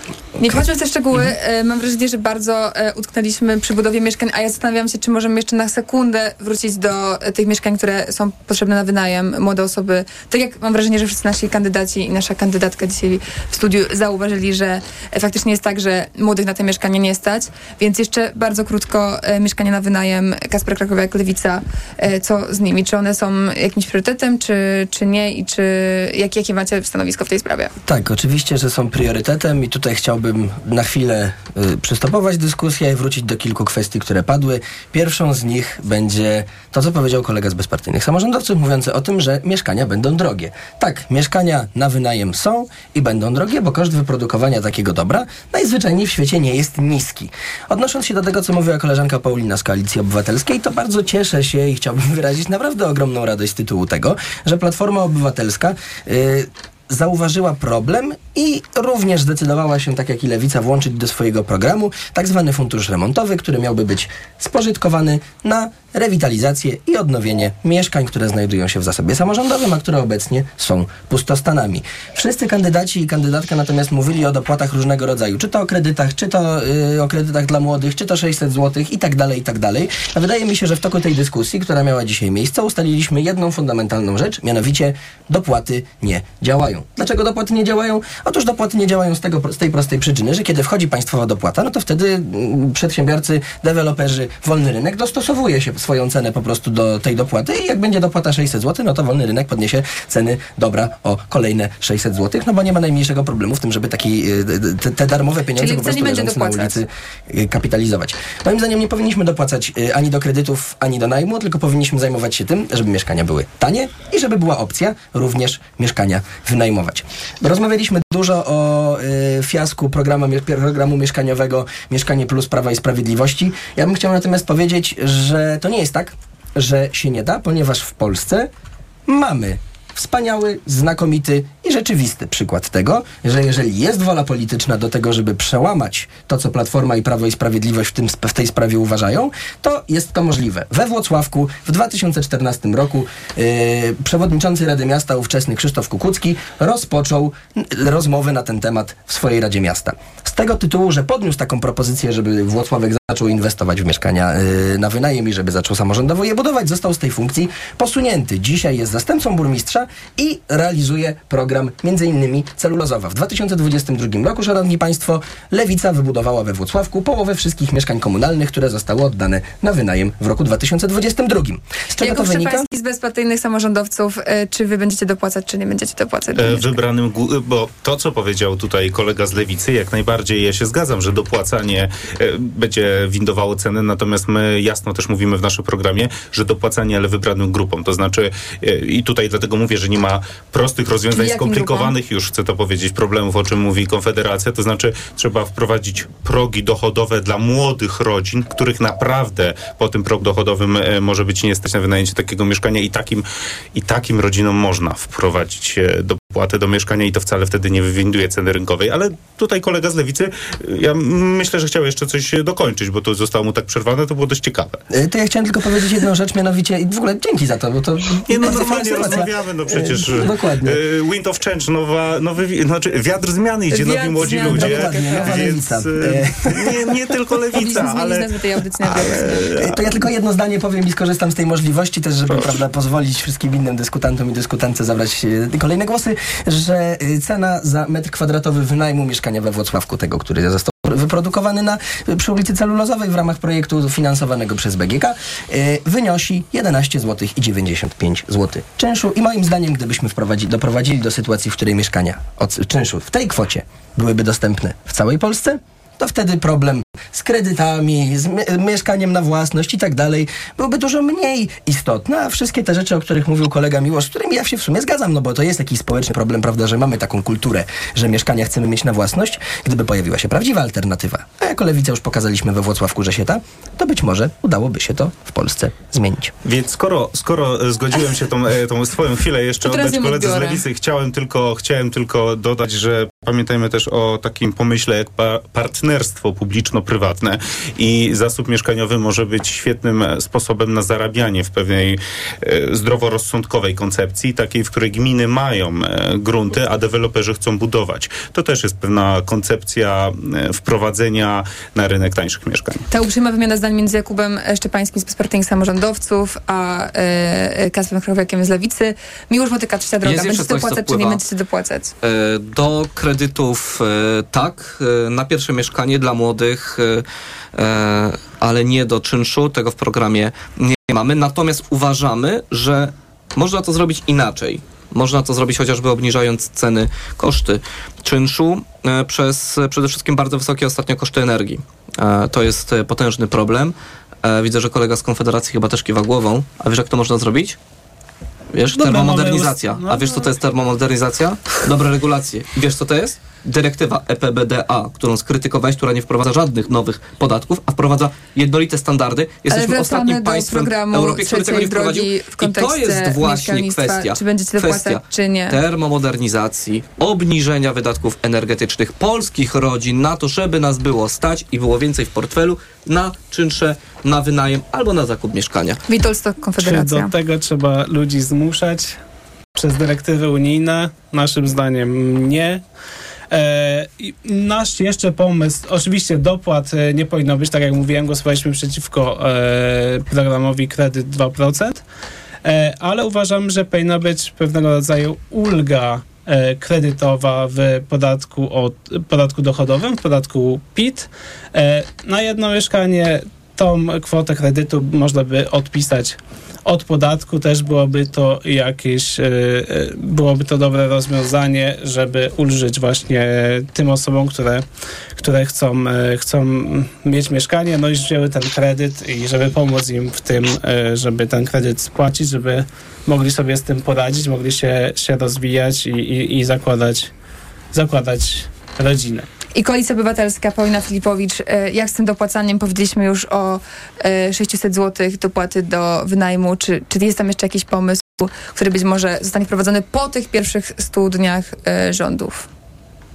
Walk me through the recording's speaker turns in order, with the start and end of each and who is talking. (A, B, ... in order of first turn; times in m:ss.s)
0:00.4-0:27.7 A
0:27.8-2:08.5 B
1:45.6-1:46.8 A
2:09.1-2:52.7 B
2:52.0-2:56.7 A
2:56.4-3:34.8 C
3:11.1-3:12.0 A
3:34.9-3:40.8 B
3:38.3-3:48.3 C
3:43.7-3:45.5 A
3:44.2-3:46.9 B
3:47.5-3:49.4 A
3:48.8-3:49.8 C
3:49.5-4:36.3 B
4:36.4-5:02.8 C
4:39.6-4:40.6 A
5:02.9-5:11.9 A
5:10.0-5:11.2 D
5:12.0-5:37.6 D
5:38.5-6:05.8 D
5:38.7-5:40.3 E
5:49.5-5:55.6 A
6:05.9-6:07.1 A
6:06.6-6:09.0 E
6:09.6-6:12.6 E
6:13.3-6:21.8 E
6:22.4-6:44.6 E
6:45.2-6:57.1 E
6:57.7-6:59.3 E
6:59.6-7:12.5 A